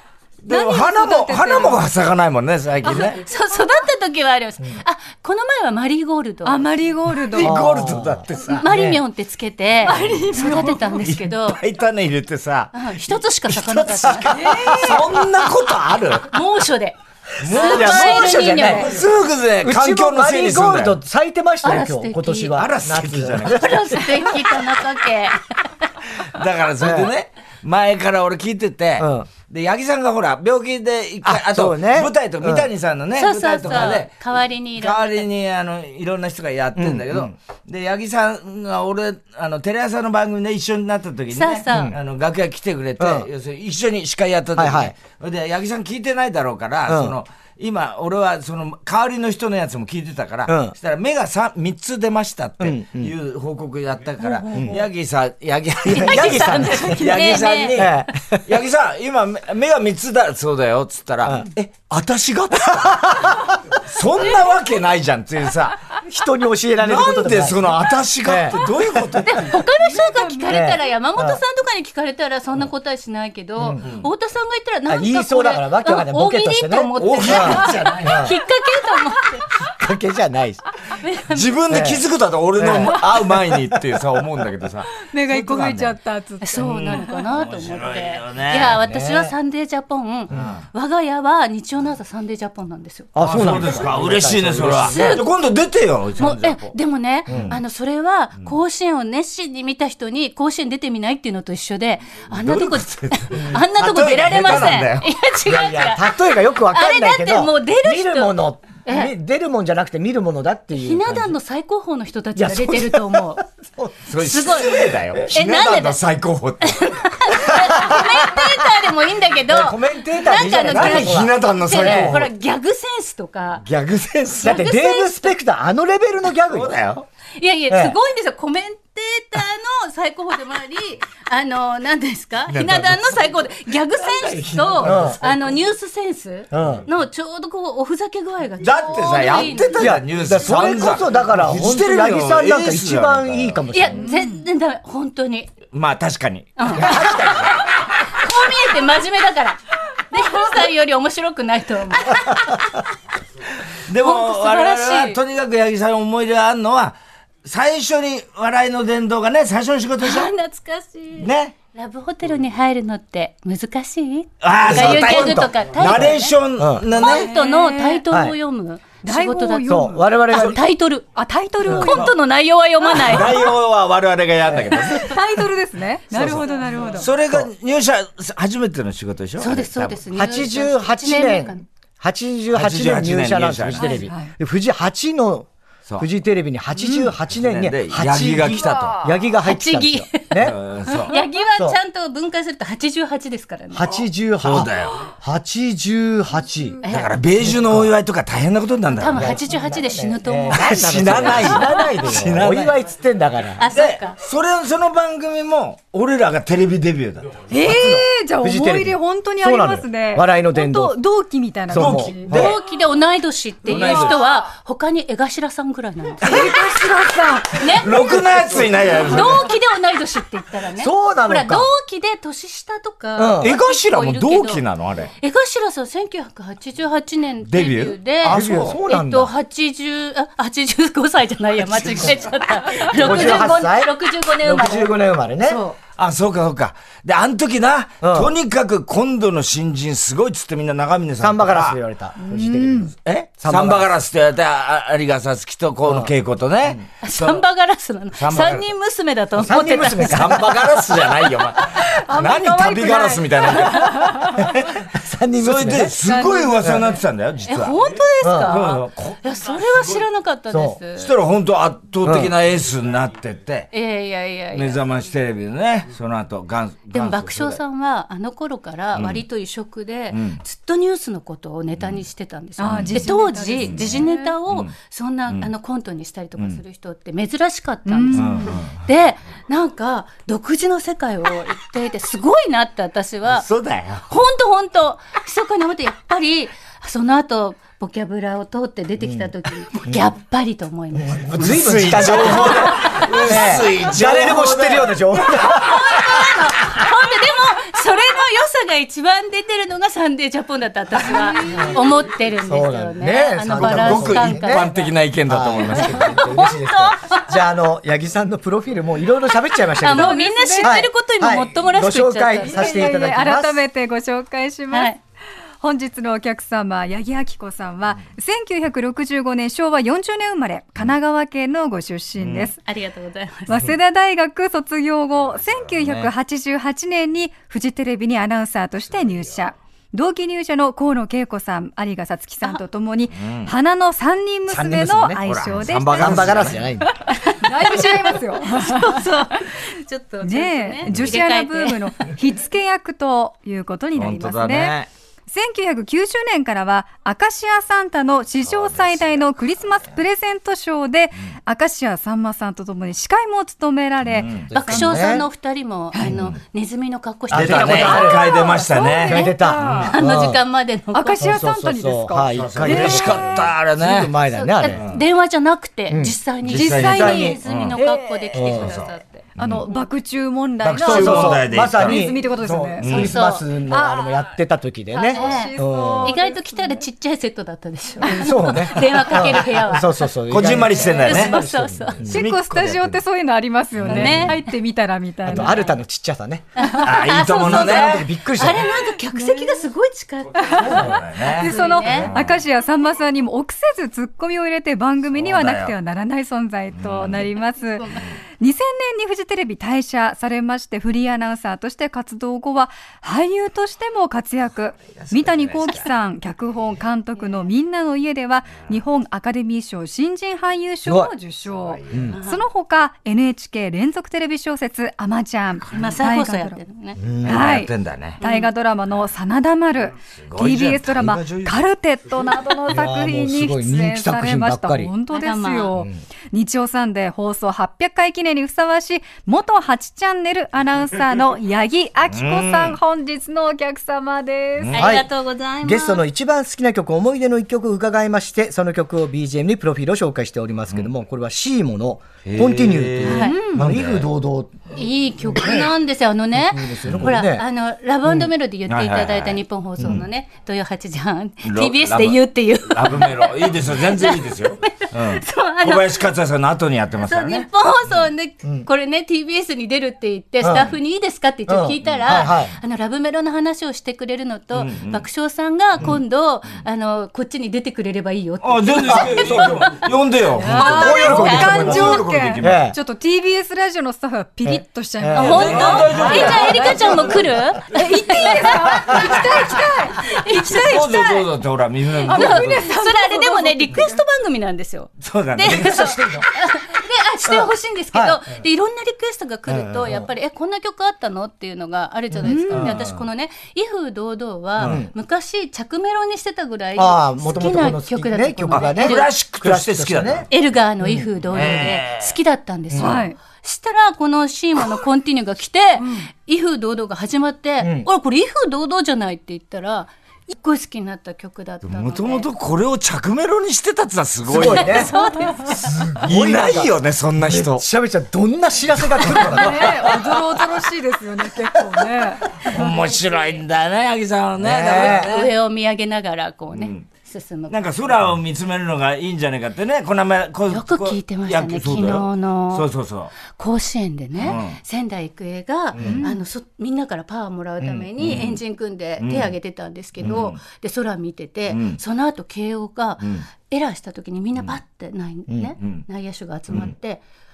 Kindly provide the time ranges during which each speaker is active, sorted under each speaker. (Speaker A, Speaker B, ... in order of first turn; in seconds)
Speaker A: 0.4-3.2, 7.2-8.7, 10.0-16.3, 17.4-21.0, 22.6-24.0, 26.3-34.1, 34.8-65.9, 66.8-69.6, 73.8-74.1, 77.0-77.9, 81.3-85.9, 86.6-88.8, 90.3-90.6, 93.2-96.8, 97.3-97.6, 102.3-105.1, 114.1-117.2, 120.6-122.3, 123.6-124.6, 126.5-127.0, 132.5-133.1, 134.1-135.4, 138.6-143.6, 145.7-147.5, 153.9-160.3, 161.2-161.5, 164.4-167.3, 171.7-172.1, 173.0-175.2, 176.1-180.0, 182.5-184.1, 187.3-189.0, 190.3-191.2, 194.4-195.0, 196.9-199.3, 200.5-202.8, 203.7-207.5, 211.7-212.6, 213.7-214.2, 216.3-216.5, 217.8-219.5, 223.4-225.1, 227.4-228.8, 236.0-241.8, 243.0-247.4, 248.2-248.6, 250.1-254.6, 255.4-257.8, 258.4-259.2, 261.0-263.7, 264.5-267.6, 268.9-269.2, 270.1-270.4, 272.6-273.1, 273.6-274.7, 278.1-278.7, 283.3-284.1, 291.4-295.1, 303.5-306.1, 322.2-322.5, 325.5-326.1, 333.1-333.5, 335.2-336.6, 340.9-341.1, 343.9-344.9, 348.4-349.2, 354.0-354.5, 356.1-356.4, 357.3-359.9, 362.3-364.1, 364.7-365.0, 366.4-367.8, 368.5-369.6, 370.6-372.1, 372.8-373.1, 380.3-381.4, 382.0-383.0, 383.7-384.3, 386.8-388.1, 390.6-392.4, 395.1-395.7, 396.7-397.2, 404.9-405.9, 411.6-412.0, 417.2-418.2, 420.1-421.7, 432.1-432.8, 434.6-434.9, 442.2-444.1, 446.8-447.1, 448.7-450.0, 451.4-458.1, 461.8-462.3, 464.5-465.0, 468.4-472.7, 475.1-477.3, 480.5-482.7, 485.0-485.9, 492.5-493.0, 494.6-494.8, 498.6-500.3, 501.3-502.1, 511.6-514.9, 516.0-517.6, 519.0-519.5, 522.4-525.3, 526.5-526.9, 527.5-533.1, 534.2-534.6, 537.7-538.4, 539.0-539.3, 540.0-540.4, 541.5-541.8, 543.0-543.2, 545.6-545.8
Speaker B: 0.5-1.8, 6.4-7.6, 9.8-11.0, 14.3-15.0, 69.8-70.5, 85.0-87.1, 144.0-144.4, 166.9-168.0, 169.0-170.1, 171.2-172.2, 172.9-173.3, 174.9-177.1, 183.8-184.3, 186.8-187.1, 207.5-212.3, 213.7-214.1, 216.2-217.7, 242.3-242.9, 251.8-254.5, 256.0-256.8, 272.6-274.3, 277.9-278.6, 301.1-301.7, 309.8-310.8, 312.4-314.9, 315.6-322.6, 323.5-339.1, 340.2-344.8, 345.3-354.4, 358.0-360.0, 360.9-363.5, 366.5-368.5, 369.4-373.1, 373.6-374.3, 374.9-376.8, 378.0-378.3, 382.1-385.7, 389.1-389.6, 390.4-416.6, 417.2-434.8, 470.3-481.2, 482.0-483.9, 492.2-492.7, 502.8-503.1, 514.9-515.5, 519.2-522.7, 535.8-536.2
Speaker C: 3.2-6.7, 8.4-11.6, 12.7-14.7, 16.3-18.9, 21.6-22.6, 23.4-25.4, 33.1-35.2, 41.3-41.9, 55.9-58.1, 69.0-79.5, 81.0-81.5, 86.4-93.1, 94.9-95.3, 96.2-109.1, 110.8-113.4, 114.2-116.0, 116.6-123.7, 124.4-125.3, 127.4-139.9, 143.7-145.5, 146.6-152.8, 154.0-155.2, 160.0-171.1, 171.7-173.4, 179.4-181.6, 189.4-190.3, 190.9-194.1, 196.8-197.1, 198.9-201.3, 203.6-204.2, 212.3-216.6, 217.5-224.6, 225.2-235.8, 247.0-250.5, 257.5-261.1, 263.7-264.8, 266.9-283.5, 284.1-293.2, 295.3-304.8, 305.8-307.3, 309.8-312.8, 314.7-315.0, 322.6-323.6, 337.1-341.9, 354.5-361.4, 364.3-369.8, 372.9-373.4, 375.1-380.1, 380.9-382.1, 383.9-384.6, 386.6-392.1, 412.1-412.4, 415.7-417.0, 418.2-418.5, 425.1-425.7, 434.7-436.0, 443.0-443.6, 444.7-456.1, 457.0-469.9, 470.4-472.0, 475.1-481.2, 482.1-499.1, 500.3-512.3, 514.4-515.8, 524.7-527.6, 530.5-532.7, 533.3-547.0
Speaker D: 7.4-9.0, 14.6-15.5, 17.5-19.0, 19.6-24.0, 26.8-27.1, 29.0-29.3, 31.2-32.7, 36.7-37.3, 41.7-42.0, 43.0-43.3, 44.5-44.9, 46.9-47.1, 50.5-50.8, 52.6-53.1, 54.5-54.8, 55.8-58.4, 61.2-61.5, 62.7-63.5, 66.0-68.8, 70.5-71.4, 73.6-73.8, 74.9-78.4, 79.6-80.6, 81.7-82.0, 82.6-83.7, 88.6-89.3, 93.1-95.2, 97.3-97.6, 105.4-111.3, 112.3-114.1, 117.5-118.5, 119.5-122.3, 124.4-126.7, 127.7-128.0, 134.8-135.2, 136.5-136.8, 139.7-144.1, 146.7-147.6, 164.6-166.0, 166.6-166.9, 168.1-168.3, 169.6-170.6, 174.5-174.9, 180.1-190.6, 193.7-196.8, 197.4-197.9, 199.1-203.7, 207.6-211.0, 211.7-212.6, 220.7-221.7, 223.2-223.6, 228.2-229.3, 232.9-235.6, 238.0-238.3, 241.2-243.9, 245.8-246.1, 249.4-251.0, 254.4-255.9, 256.6-256.9, 258.2-258.5, 260.5-260.8, 262.0-262.3, 289.0-290.1, 290.9-296.8, 301.5-301.9, 302.4-304.7, 305.2-313.6, 334.5-336.9, 354.4-355.2, 357.3-358.3, 359.1-360.4, 361.2-364.8, 365.9-366.2, 366.8-367.4, 368.3-368.7, 370.8-376.1, 378.1-382.2, 385.2-386.5, 387.2-388.7, 410.8-411.1, 411.9-412.2, 417.0-417.6, 422.7-424.9, 434.7-435.1, 435.6-444.7, 445.3-445.7, 446.3-447.4, 460.4-460.7, 461.5-462.5, 468.9-469.5, 470.7-472.8, 474.4-476.4, 485.4-486.3, 487.2-488.2, 489.7-490.1, 492.1-492.4, 494.6-494.9, 496.8-500.3, 500.8-501.1, 502.7-503.0, 507.6-507.9, 514.3-514.9, 515.5-520.1, 524.4-525.1, 545.3-545.5